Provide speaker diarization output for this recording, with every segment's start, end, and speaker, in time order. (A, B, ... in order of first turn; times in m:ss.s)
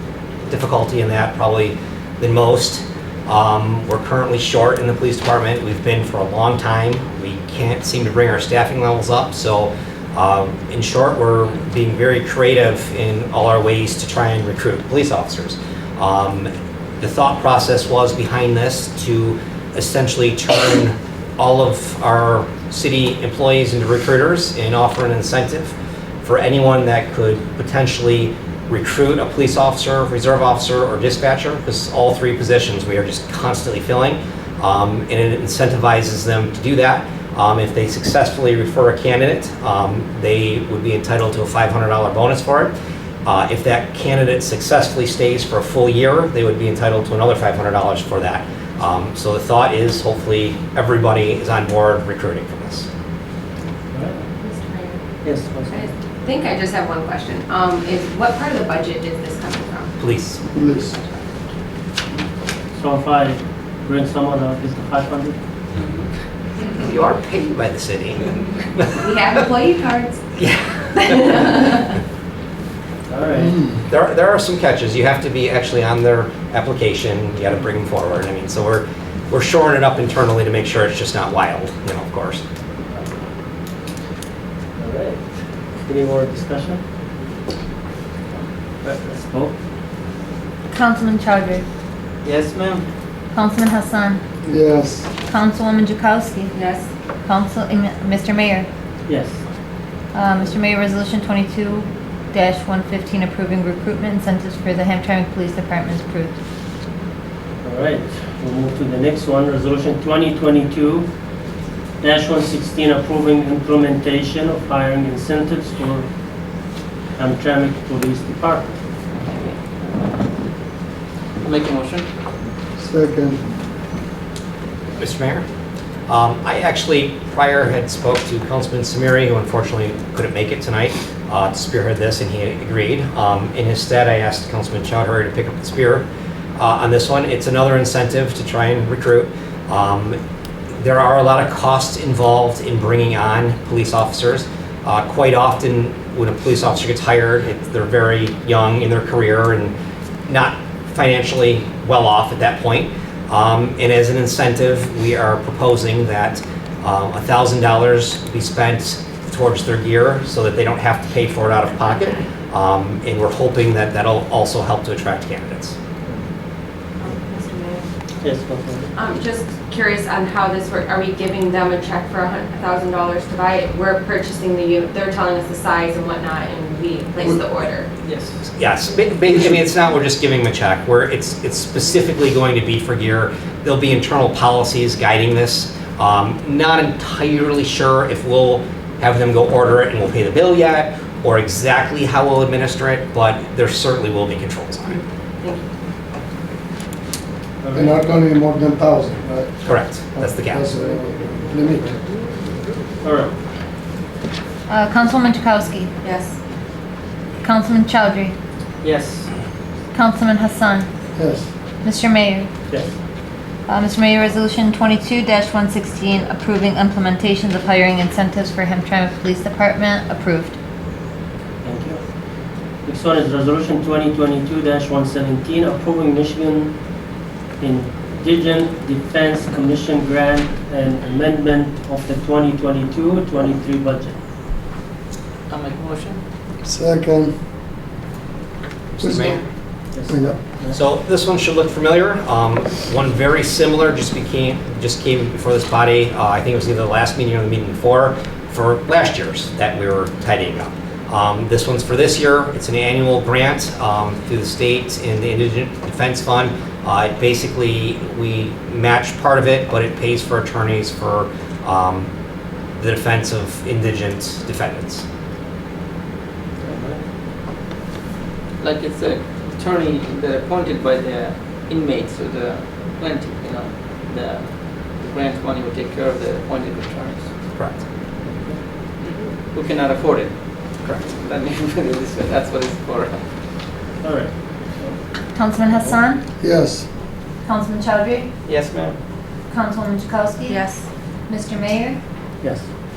0:00.5-0:42.7 A
0:43.2-0:52.9 A
0:53.9-0:54.2 B
0:54.4-0:55.0 C
0:55.2-0:55.9 B
0:55.7-0:59.9 C
1:00.0-1:00.4 A
1:00.5-1:01.0 D
1:00.9-1:01.2 C
1:02.7-1:05.4 B
1:06.8-1:09.1 A
1:09.0-1:10.2 C
1:10.4-1:11.4 A
1:11.0-1:11.9 C
1:13.1-1:13.6 B
1:13.5-1:13.8 D
1:13.9-1:22.4 A
1:24.8-1:25.2 B
1:25.8-1:26.8 B
1:28.8-1:29.5 B
1:30.7-1:31.6 E
1:32.2-1:32.9 F
1:33.3-1:34.2 E
1:34.4-1:35.1 D
1:35.3-1:36.5 E
1:36.5-1:36.9 C
1:37.2-1:38.7 E
1:39.1-1:39.4 B
1:40.1-1:46.3 E
1:47.6-1:51.1 B
1:52.0-1:56.1 B
1:57.2-1:58.8 B
1:59.1-2:00.3 F
2:01.4-2:02.1 F
2:02.8-2:03.4 D
2:05.0-2:05.4 A
2:06.1-2:20.2 A
2:20.8-2:29.7 A
2:30.3-2:45.7 A
2:47.0-2:47.8 C
2:48.2-2:48.9 B
2:48.9-2:57.9 C
2:58.0-2:58.3 F
2:58.5-3:15.0 A
3:15.4-3:15.7 C
3:17.6-3:18.0 B
3:17.7-3:22.0 D
3:19.6-3:20.6 A
3:23.0-3:23.3 B
3:24.7-3:25.9 E
3:26.0-3:26.4 C
3:27.4-3:28.3 E
3:28.8-3:29.3 F
3:29.9-3:30.9 E
3:31.2-3:31.5 D
3:31.8-3:32.5 E
3:33.7-3:40.5 E
3:41.6-3:42.0 B
3:42.8-3:46.7 B
3:47.6-3:54.2 B
3:55.5-3:56.2 F
3:56.6-3:57.3 D
3:59.0-3:59.4 A
3:59.0-3:59.4 D
3:59.9-4:00.8 B
4:00.1-4:00.4 D
4:00.7-4:22.1 A
4:22.8-4:25.0 A
4:26.6-4:27.0 B
4:28.6-4:37.3 F
4:37.6-4:37.8 A
4:38.2-4:38.6 B
4:39.0-4:40.4 F
4:41.1-4:43.2 F
4:44.0-4:45.0 B
4:45.3-4:46.2 E
4:46.4-4:46.8 D
4:47.4-4:48.3 E
4:48.5-4:49.0 F
4:49.5-4:50.6 E
4:50.5-4:50.8 C
4:51.3-4:52.0 E